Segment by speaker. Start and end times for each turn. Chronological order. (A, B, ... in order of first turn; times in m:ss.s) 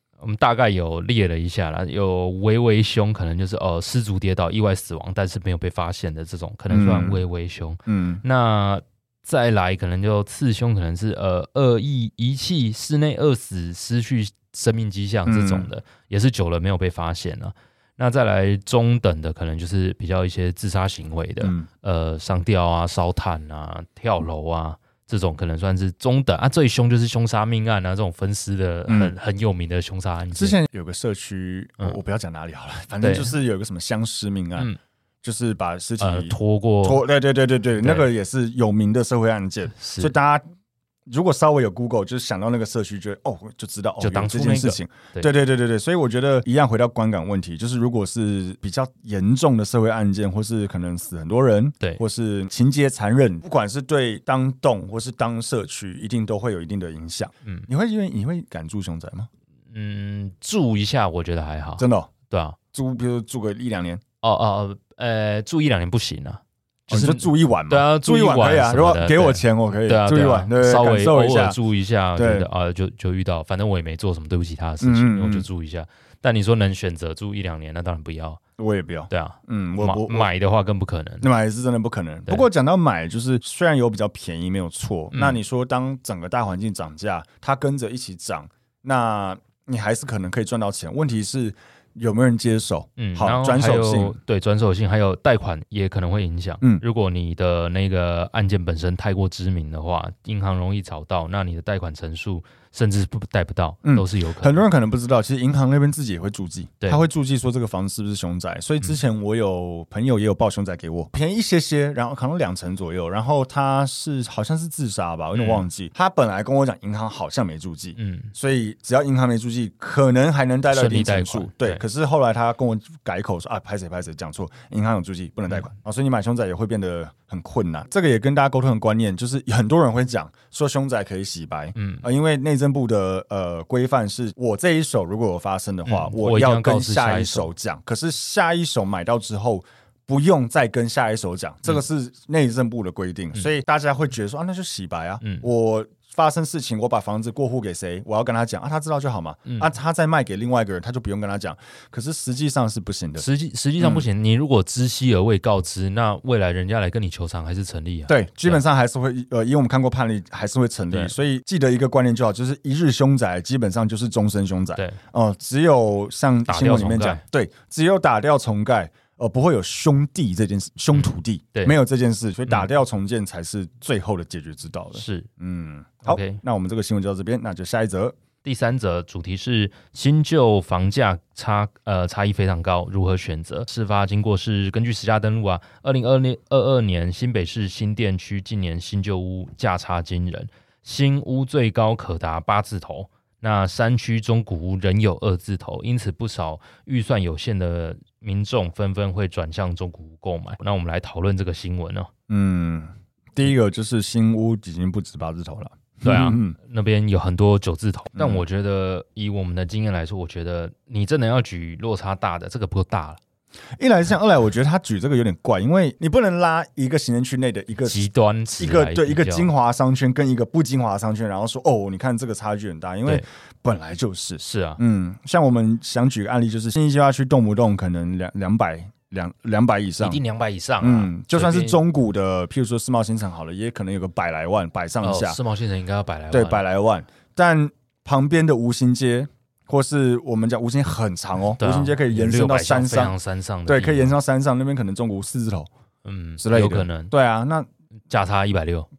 0:00.2-0:30.6 A
0:06.7-0:07.2 B
0:07.9-0:08.2 B
0:15.3-0:15.7 B
0:21.4-0:21.7 B
0:28.9-0:29.1 B
0:30.3-0:34.7 B
0:33.0-0:33.3 A
0:35.2-0:40.4 B
0:36.0-0:37.0 A
0:37.8-0:38.1 A
0:39.8-0:40.1 A
0:41.1-0:59.3 B
0:44.0-0:45.3 A
0:59.7-1:02.6 A
1:01.8-1:02.1 B
1:02.7-1:04.0 B
1:04.2-1:18.4 A
1:06.9-1:11.6 B
1:12.2-1:12.5 B
1:14.8-1:15.5 B
1:18.6-1:20.3 B
1:19.1-1:21.3 A
1:21.2-1:34.2 B
1:25.1-1:25.4 A
1:33.0-1:44.6 A
1:43.8-2:33.2 B
1:46.8-1:47.1 A
1:55.3-1:55.7 A
1:58.0-1:58.3 A
2:00.7-2:01.8 A
2:11.8-2:12.0 A
2:15.8-2:17.5 A
2:25.2-2:25.5 A
2:33.2-2:38.6 A
2:33.8-2:34.1 B
2:38.1-2:58.2 B
2:46.5-2:47.2 A
2:50.9-2:51.7 A
2:54.9-2:55.3 A
2:56.0-2:56.4 A
2:58.4-3:22.1 A
3:22.3-3:26.6 B
3:26.0-3:33.2 A
3:28.1-3:28.4 B
3:33.8-3:50.2 B
3:37.8-3:39.5 A
3:44.4-3:44.8 A
3:50.0-3:51.8 A
3:50.8-3:55.4 B
3:55.0-3:56.6 A
3:56.3-4:03.1 B
4:01.6-4:04.1 A
4:03.7-4:05.7 B
4:06.0-4:07.1 A
4:06.4-4:07.7 B
4:08.1-4:08.9 A